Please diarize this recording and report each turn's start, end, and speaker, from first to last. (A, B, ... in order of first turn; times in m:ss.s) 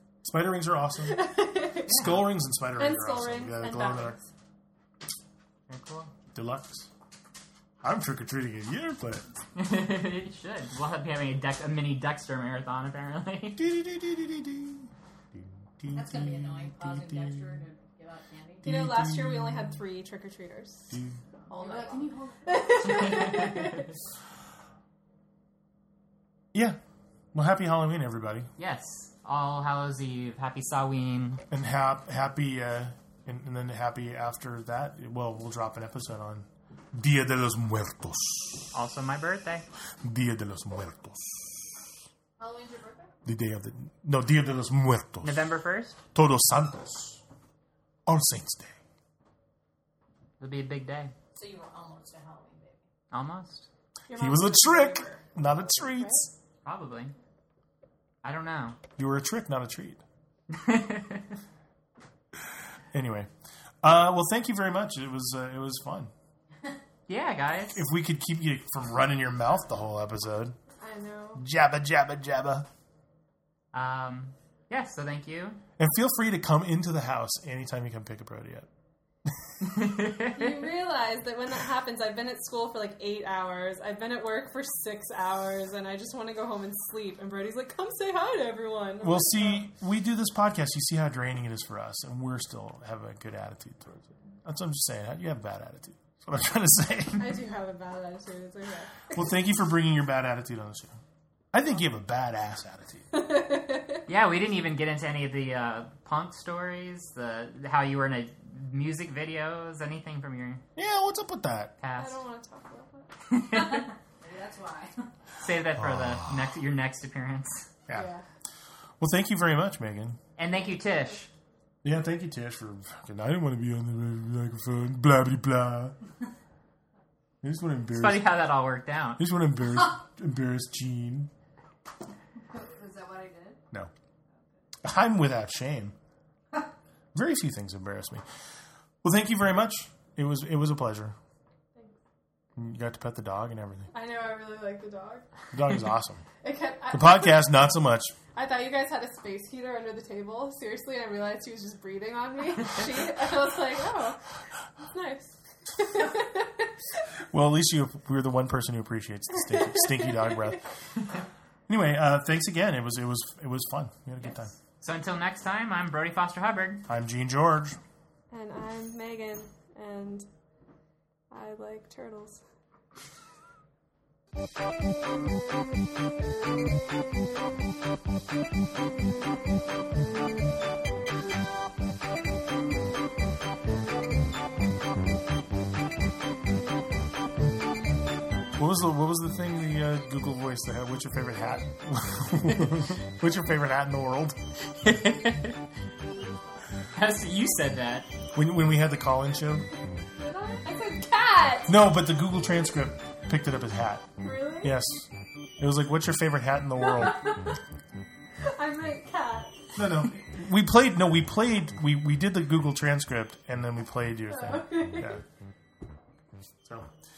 0:00.2-0:01.2 A
0:01.0-0:02.2 B
0:01.9-0:04.2 A
0:02.7-0:04.3 B
0:05.7-0:06.1 C
0:06.3-0:06.9 A
0:07.8-0:09.2 A
0:09.6-0:13.6 C
0:13.6-0:17.6 A
0:15.9-0:18.7 D
0:18.6-0:20.9 B
0:18.6-0:19.8 A
0:20.9-0:21.2 A
0:21.5-0:23.1 D
0:21.5-0:23.9 B
0:22.8-0:23.9 C
0:26.5-0:26.8 A
0:27.3-0:28.5 A
0:28.6-0:31.4 C
0:31.5-0:38.7 A
0:38.7-0:39.7 C
0:40.0-0:41.4 A
0:42.4-0:43.1 D
0:43.2-0:45.4 A
0:45.2-0:46.0 C
0:46.1-0:47.2 A
0:48.1-0:48.8 A
0:50.4-0:51.1 C
0:51.4-0:52.8 D
0:53.1-0:53.7 C
0:54.1-0:55.3 B
0:54.1-0:56.3 A
0:55.9-0:56.3 B
0:56.6-0:57.1 C
0:58.2-0:58.8 C
0:59.0-1:00.0 A
1:00.5-1:01.3 C
1:02.9-1:03.3 A
1:03.8-1:06.1 A
1:07.1-1:07.8 C
1:07.7-1:10.6 A
1:10.8-1:11.4 B
1:11.4-1:12.7 A
1:13.7-1:15.6 C
1:15.8-1:18.7 A
1:19.6-1:20.6 C
1:20.2-1:29.7 B
1:29.0-1:37.4 A
1:37.2-1:39.2 B
1:39.1-1:41.0 A
1:41.5-1:43.2 A
1:43.1-1:44.0 B
1:44.1-1:50.6 C
1:50.8-1:51.7 A
1:51.8-1:52.2 C
1:51.9-1:53.1 B
1:53.3-1:53.9 C
1:53.7-1:55.1 D
1:55.4-1:57.7 C
1:55.8-1:56.5 A
1:57.9-1:58.2 B
1:59.0-2:00.2 A
2:00.4-2:01.3 C
2:01.8-2:05.9 A
2:07.4-2:08.4 A
2:07.9-2:09.2 C
2:09.2-2:11.3 A
2:12.5-2:13.6 D
2:14.8-2:15.9 A
2:17.1-2:18.2 A
2:19.0-2:21.2 A
2:22.6-2:23.9 A
2:23.9-2:25.3 B
2:25.5-2:26.3 A
2:26.4-2:27.5 B
2:26.9-2:28.2 A
2:28.3-2:34.2 B
2:34.8-2:37.0 B
2:37.3-2:40.6 A
2:39.6-2:40.1 B
2:41.7-2:44.5 A
2:44.2-2:46.9 C
2:46.9-2:47.8 A
2:48.3-2:50.3 B
2:51.3-2:52.4 B
3:08.6-3:14.4 A
3:14.8-3:15.6 C
3:16.9-3:18.1 C
3:18.4-3:19.6 A
3:20.2-3:21.8 B
3:21.7-3:24.1 A
3:24.2-3:24.7 B
3:24.6-3:25.1 A
3:25.6-3:27.2 A
3:26.8-3:27.6 B
3:28.4-3:29.7 B
3:29.7-3:35.2 A
3:34.3-3:35.2 B